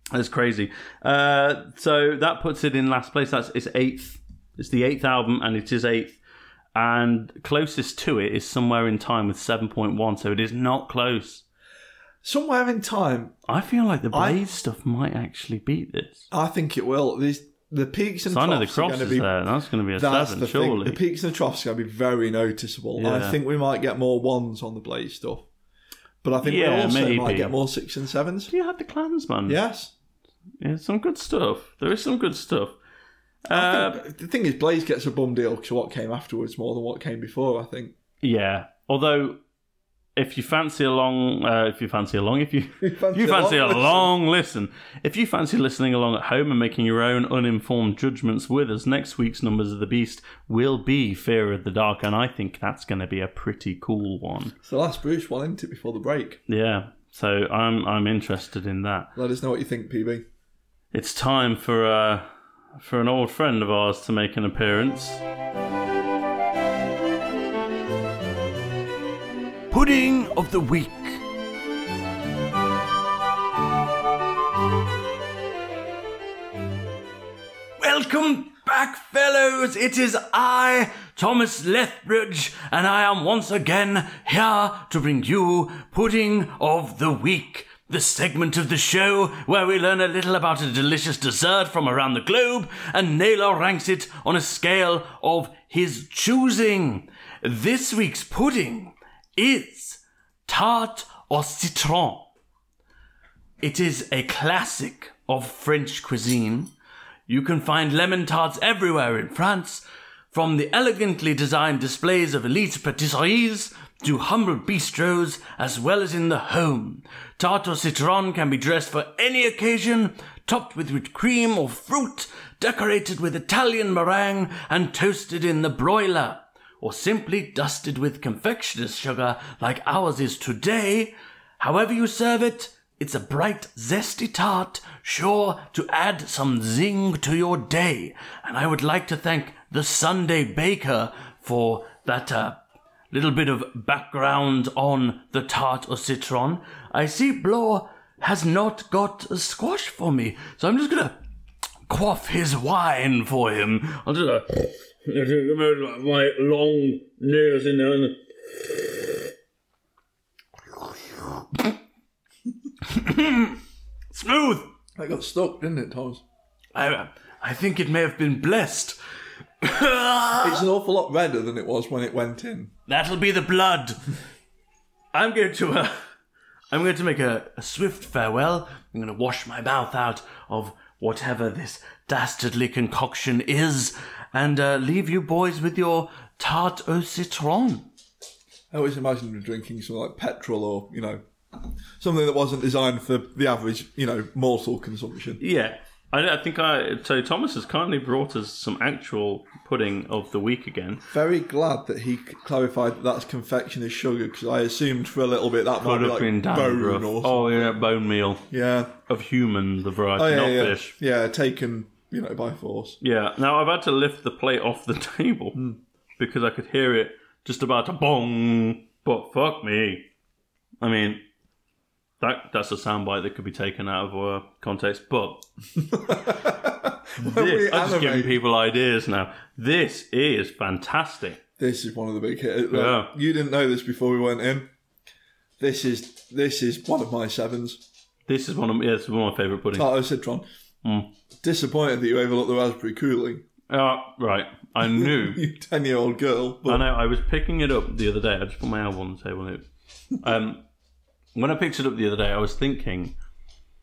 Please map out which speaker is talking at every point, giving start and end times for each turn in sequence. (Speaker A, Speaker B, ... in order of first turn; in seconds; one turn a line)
Speaker A: 0.1-6.2
Speaker A: 6.8-11.4
Speaker B: 12.2-13.4
Speaker A: 13.5-16.3
Speaker B: 14.1-14.4
Speaker B: 16.3-19.3
Speaker A: 18.3-21.0
Speaker B: 20.0-25.5
Speaker A: 23.0-23.4
Speaker B: 26.2-28.5
Speaker A: 26.4-27.6
Speaker A: 28.5-29.6
Speaker B: 29.5-29.9
Speaker A: 30.6-32.8
Speaker A: 33.5-34.0
Speaker B: 33.5-38.0
Speaker A: 38.2-39.4
Speaker A: 40.2-54.5
Speaker B: 42.8-44.1
Speaker B: 54.6-56.4
Speaker A: 56.5-59.1
Speaker B: 59.2-60.3
Speaker A: 60.9-65.2
Speaker A: 69.7-71.2
Speaker A: 77.8-102.3
Speaker A: 103.6-106.7
Speaker A: 107.3-142.6
Speaker A: 143.1-151.2
Speaker A: 151.9-159.1
Speaker A: 162.8-163.6
Speaker A: 164.1-164.7
Speaker B: 165.0-166.2
Speaker A: 166.8-169.0
Speaker A: 169.6-170.6
Speaker B: 170.4-172.7
Speaker A: 172.9-174.1
Speaker A: 175.1-176.0
Speaker A: 176.7-187.9
Speaker B: 188.7-191.2
Speaker B: 192.0-195.4
Speaker A: 195.4-201.1
Speaker B: 201.1-207.8
Speaker A: 205.8-208.4
Speaker B: 208.5-208.9
Speaker A: 209.1-210.9
Speaker B: 210.2-213.0
Speaker A: 213.0-215.6
Speaker A: 216.2-220.1
Speaker A: 220.8-221.2
Speaker A: 222.2-225.5
Speaker B: 225.9-228.4
Speaker A: 227.2-231.4
Speaker B: 231.6-234.7
Speaker A: 232.7-233.2
Speaker B: 235.6-237.8
Speaker A: 238.3-239.9
Speaker B: 239.7-240.4
Speaker A: 240.8-241.1
Speaker B: 241.4-243.4
Speaker A: 243.7-245.4
Speaker B: 244.8-246.9
Speaker A: 246.7-250.7
Speaker A: 251.3-253.2